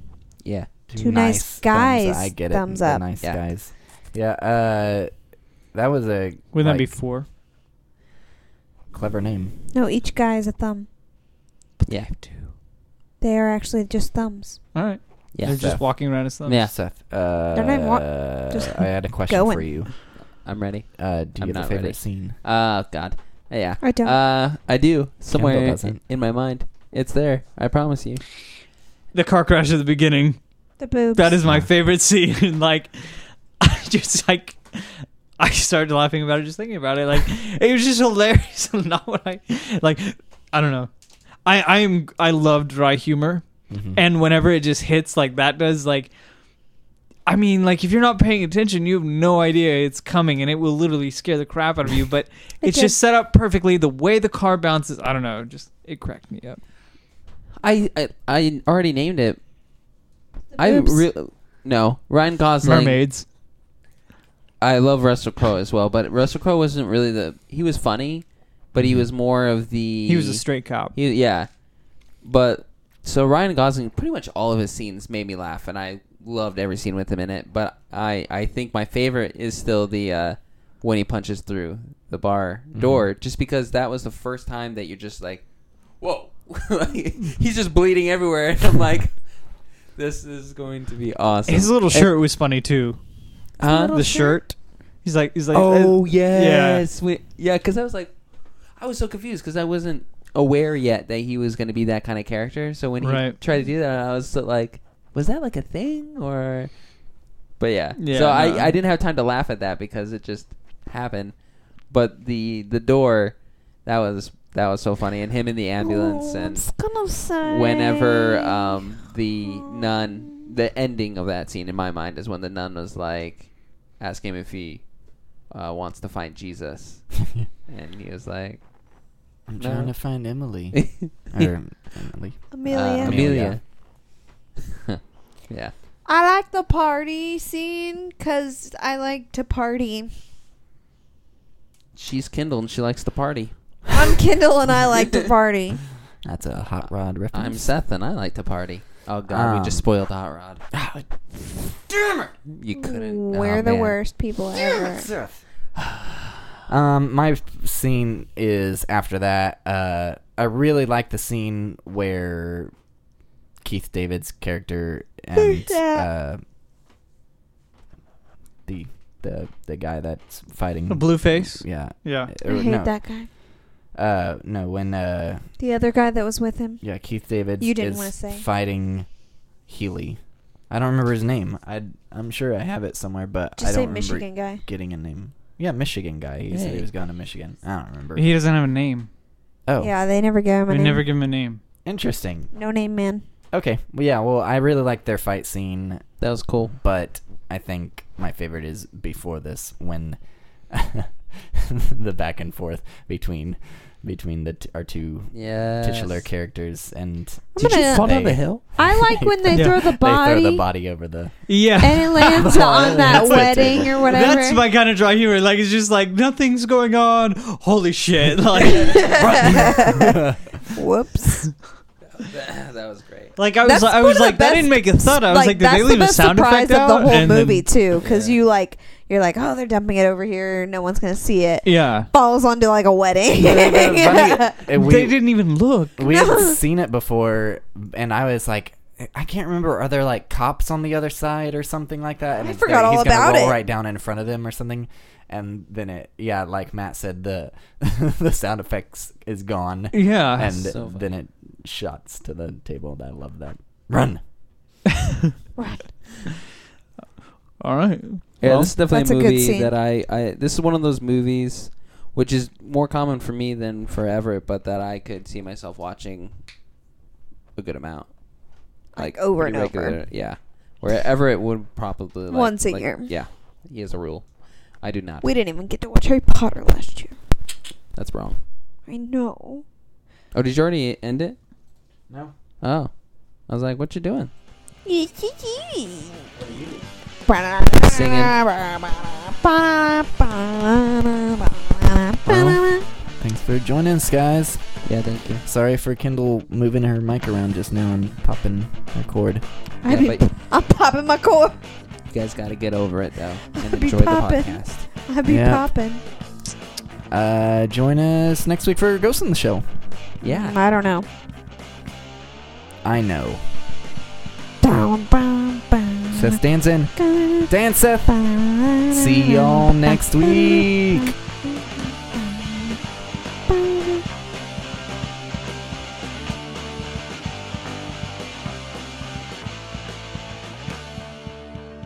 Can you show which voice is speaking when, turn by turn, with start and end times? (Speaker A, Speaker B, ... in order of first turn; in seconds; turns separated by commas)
Speaker A: 0.4-0.7, Speaker B: 0.9-5.1, Speaker C: 0.9-3.0, Speaker B: 5.7-7.0, Speaker D: 6.5-7.2, Speaker B: 8.9-9.6, Speaker C: 9.7-10.9, Speaker D: 11.8-12.5, Speaker A: 11.9-12.1, Speaker C: 13.2-14.6, Speaker D: 14.7-16.6, Speaker A: 15.3-16.7, Speaker B: 15.4-15.8, Speaker B: 16.5-20.0, Speaker C: 17.6-19.7, Speaker A: 20.1-28.2, Speaker B: 21.0-22.4, Speaker C: 23.8-24.1, Speaker B: 25.3-26.0, Speaker D: 29.1-30.4, Speaker C: 30.8-31.4, Speaker D: 31.1-40.9, Speaker D: 41.4-43.4, Speaker B: 43.7-44.0, Speaker D: 44.0-46.1, Speaker D: 47.2-56.6, Speaker C: 52.6-53.0, Speaker A: 57.6-59.4, Speaker A: 60.6-63.0, Speaker D: 60.6-61.0, Speaker D: 62.6-63.2, Speaker A: 64.6-71.5, Speaker B: 68.8-69.1, Speaker D: 70.1-70.9, Speaker A: 72.2-85.4, Speaker B: 82.7-83.0, Speaker A: 86.0-89.4, Speaker A: 89.9-92.1, Speaker D: 91.5-93.0, Speaker A: 93.6-94.2, Speaker D: 93.6-96.8, Speaker C: 93.6-94.3, Speaker A: 95.5-98.1, Speaker A: 98.8-106.7, Speaker D: 103.0-103.4, Speaker A: 107.6-111.3, Speaker D: 108.0-108.8, Speaker A: 111.9-116.7, Speaker C: 115.8-120.5, Speaker A: 117.4-124.9, Speaker A: 125.5-127.2, Speaker A: 127.7-128.6, Speaker B: 129.5-133.6, Speaker A: 129.6-129.9, Speaker A: 130.7-131.5, Speaker C: 132.5-133.3, Speaker A: 132.7-133.6, Speaker A: 134.9-135.7, Speaker C: 136.1-140.1, Speaker A: 141.9-143.6, Speaker C: 143.9-145.8, Speaker B: 146.2-147.7, Speaker A: 147.3-150.6, Speaker B: 149.3-149.8, Speaker B: 150.7-152.3, Speaker A: 152.5-154.0, Speaker C: 152.7-155.1, Speaker B: 154.6-155.4, Speaker B: 156.7-162.7, Speaker B: 163.6-166.4, Speaker C: 165.3-166.1, Speaker B: 168.7-172.9, Speaker D: 170.9-172.3, Speaker C: 172.4-173.3, Speaker B: 173.9-175.4, Speaker C: 175.6-176.8, Speaker B: 176.8-179.1, Speaker C: 177.6-178.4, Speaker B: 179.7-180.2, Speaker B: 180.7-188.3, Speaker C: 183.6-184.6, Speaker A: 186.5-186.9, Speaker D: 188.2-189.1, Speaker B: 189.7-189.9, Speaker C: 189.8-191.1, Speaker D: 190.7-191.6, Speaker B: 191.8-192.5, Speaker C: 192.5-193.2, Speaker B: 193.5-196.0, Speaker A: 196.2-196.7, Speaker B: 196.7-200.2, Speaker B: 200.7-211.4, Speaker A: 205.3-206.2, Speaker C: 207.6-208.2, Speaker A: 207.6-208.6, Speaker C: 208.7-210.6, Speaker D: 211.5-220.2, Speaker C: 211.8-214.6, Speaker B: 212.2-214.0, Speaker C: 218.6-221.5, Speaker B: 219.6-220.5, Speaker A: 222.2-223.3, Speaker D: 223.4-227.7, Speaker C: 223.6-234.6, Speaker A: 228.0-228.4, Speaker D: 231.6-232.1, Speaker B: 233.4-235.2, Speaker D: 234.7-236.1, Speaker B: 236.0-254.2, Speaker C: 236.0-236.6, Speaker C: 242.3-243.6, Speaker D: 249.9-250.6, Speaker A: 250.6-251.0, Speaker C: 255.6-255.9, Speaker D: 257.6-258.7, Speaker A: 258.4-266.3, Speaker C: 258.9-259.7, Speaker A: 267.6-268.1, Speaker A: 268.9-275.3, Speaker C: 268.9-270.0, Speaker C: 272.3-273.1, Speaker C: 275.2-277.2, Speaker A: 277.9-278.4, Speaker C: 278.9-279.6, Speaker A: 280.3-281.4, Speaker A: 282.6-282.9, Speaker A: 283.5-284.3, Speaker C: 284.8-286.3, Speaker B: 286.4-286.8, Speaker C: 287.2-292.9, Speaker A: 287.8-288.4, Speaker B: 292.2-294.8, Speaker A: 294.8-295.4, Speaker B: 295.4-299.4, Speaker C: 299.8-301.6, Speaker A: 299.9-300.2, Speaker A: 302.1-304.9, Speaker C: 303.6-306.0, Speaker B: 305.2-305.6, Speaker B: 307.1-309.6, Speaker A: 310.2-310.6, Speaker C: 310.2-311.1, Speaker B: 312.8-313.4, Speaker C: 314.6-316.4, Speaker B: 316.1-316.9, Speaker C: 316.9-317.5, Speaker B: 317.4-318.2, Speaker C: 318.1-322.8, Speaker B: 318.9-321.1, Speaker C: 323.5-324.0